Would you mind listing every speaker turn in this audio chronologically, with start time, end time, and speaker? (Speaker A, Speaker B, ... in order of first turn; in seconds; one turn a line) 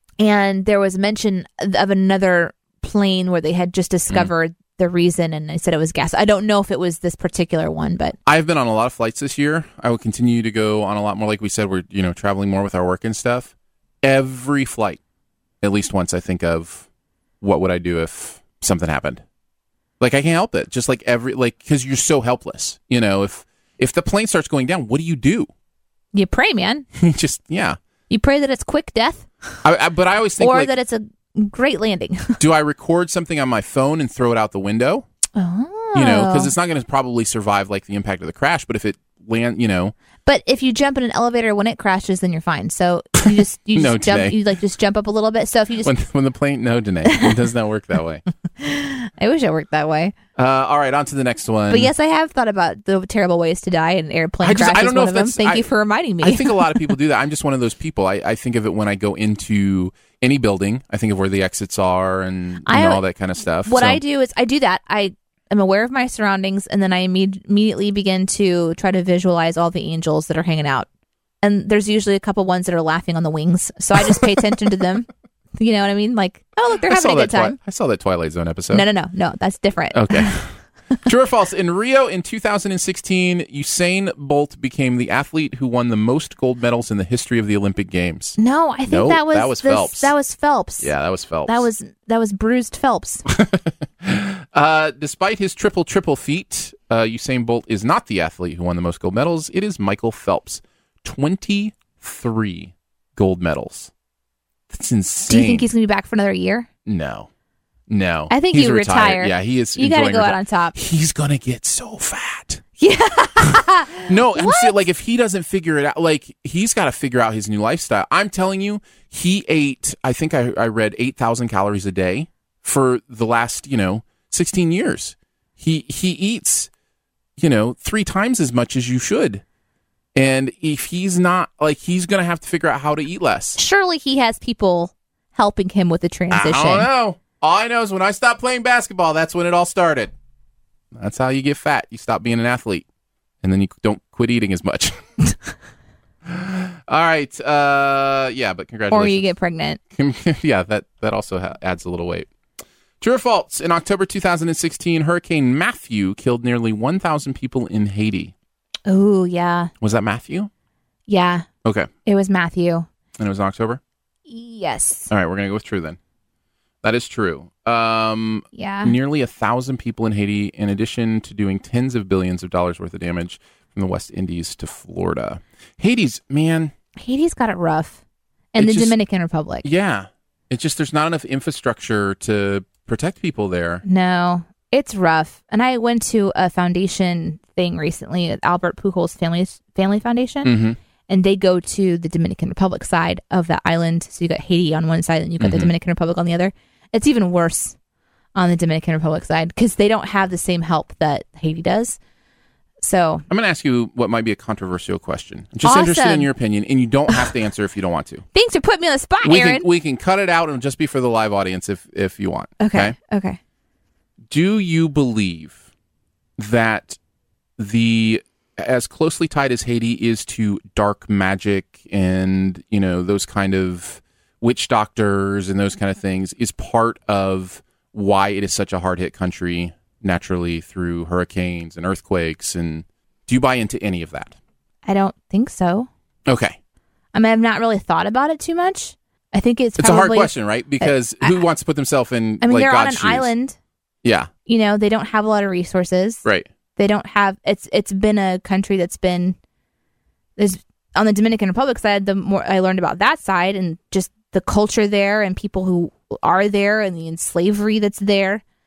Speaker A: 0.2-8.2
Speaker B: 8.3-13.5
Speaker B: 14.0-15.0
Speaker B: 15.6-16.9
Speaker B: 17.4-19.2
Speaker B: 20.0-25.5
Speaker A: 26.1-26.9
Speaker B: 27.0-27.8
Speaker A: 28.1-29.3
Speaker B: 29.6-30.7
Speaker A: 30.4-32.4
Speaker B: 32.4-35.1
Speaker A: 35.4-36.5
Speaker B: 36.0-39.9
Speaker A: 40.2-45.9
Speaker B: 43.3-44.4
Speaker B: 45.8-48.2
Speaker A: 47.0-47.4
Speaker A: 48.6-50.1
Speaker B: 50.4-51.9
Speaker A: 51.7-56.9
Speaker B: 54.4-55.7
Speaker B: 56.2-64.0
Speaker A: 62.7-63.0
Speaker A: 63.6-70.9
Speaker A: 71.4-77.6
Speaker B: 76.9-78.8
Speaker A: 78.7-80.4
Speaker B: 79.9-80.5
Speaker B: 81.0-90.1
Speaker A: 88.4-90.9
Speaker B: 90.8-91.7
Speaker A: 91.5-93.2
Speaker B: 93.3-103.9
Speaker B: 104.7-105.7
Speaker A: 105.3-106.7
Speaker B: 106.9-107.3
Speaker B: 107.9-112.6
Speaker A: 108.3-110.8
Speaker A: 112.8-114.8
Speaker B: 114.1-126.7
Speaker B: 127.4-129.4
Speaker B: 130.2-133.6
Speaker A: 133.6-136.9
Speaker B: 136.3-140.1
Speaker B: 140.9-142.8
Speaker B: 143.4-145.0
Speaker B: 146.3-149.3
Speaker A: 148.9-149.8
Speaker B: 149.9-152.3
Speaker B: 153.0-158.3
Speaker A: 158.9-159.7
Speaker B: 159.8-160.5
Speaker A: 161.1-161.5
Speaker A: 162.1-162.9
Speaker B: 163.2-163.8
Speaker A: 164.3-165.1
Speaker B: 165.1-166.0
Speaker B: 166.8-176.7
Speaker A: 168.5-168.9
Speaker A: 177.0-178.0
Speaker A: 178.5-179.7
Speaker B: 178.6-178.9
Speaker B: 179.6-183.8
Speaker A: 183.8-190.5
Speaker B: 190.4-190.8
Speaker A: 191.1-197.8
Speaker B: 195.4-195.7
Speaker A: 198.3-202.0
Speaker A: 202.8-203.2
Speaker B: 203.3-208.2
Speaker A: 205.6-206.3
Speaker A: 208.3-209.7
Speaker B: 209.2-212.9
Speaker A: 212.6-213.4
Speaker B: 214.3-215.6
Speaker B: 216.4-217.0
Speaker B: 217.6-234.4
Speaker A: 234.8-235.9
Speaker B: 236.3-236.6
Speaker A: 237.1-241.4
Speaker B: 239.8-243.3
Speaker A: 242.4-243.6
Speaker B: 244.0-244.3
Speaker A: 244.5-246.2
Speaker A: 246.8-249.4
Speaker A: 250.4-258.4